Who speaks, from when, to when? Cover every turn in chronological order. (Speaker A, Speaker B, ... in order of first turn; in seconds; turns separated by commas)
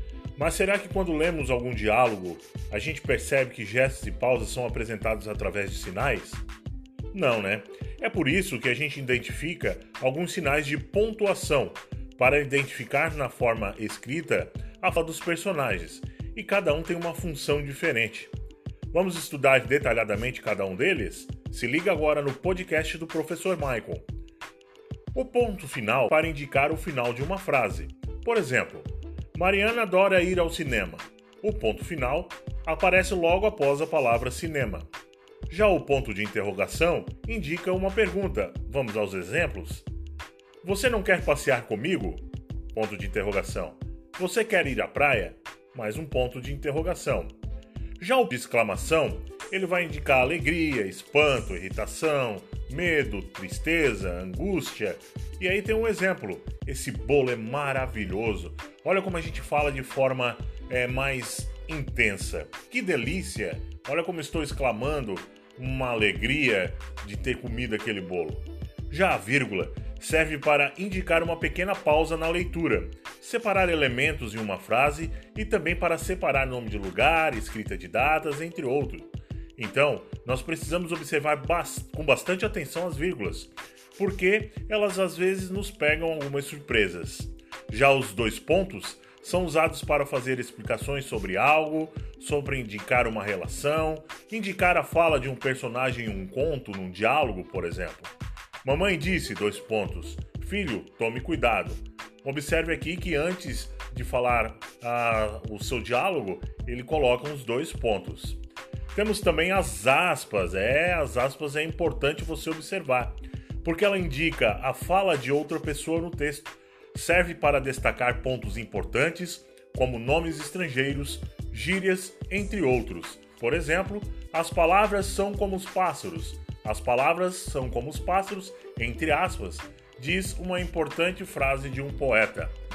Speaker A: 0.4-6.4, Speaker A: 7.1-18.3, Speaker A: 18.9-24.1, Speaker A: 25.1-34.9, Speaker A: 35.5-39.9, Speaker A: 40.6-47.3, Speaker A: 48.0-98.1, Speaker A: 98.6-108.4, Speaker A: 108.9-132.5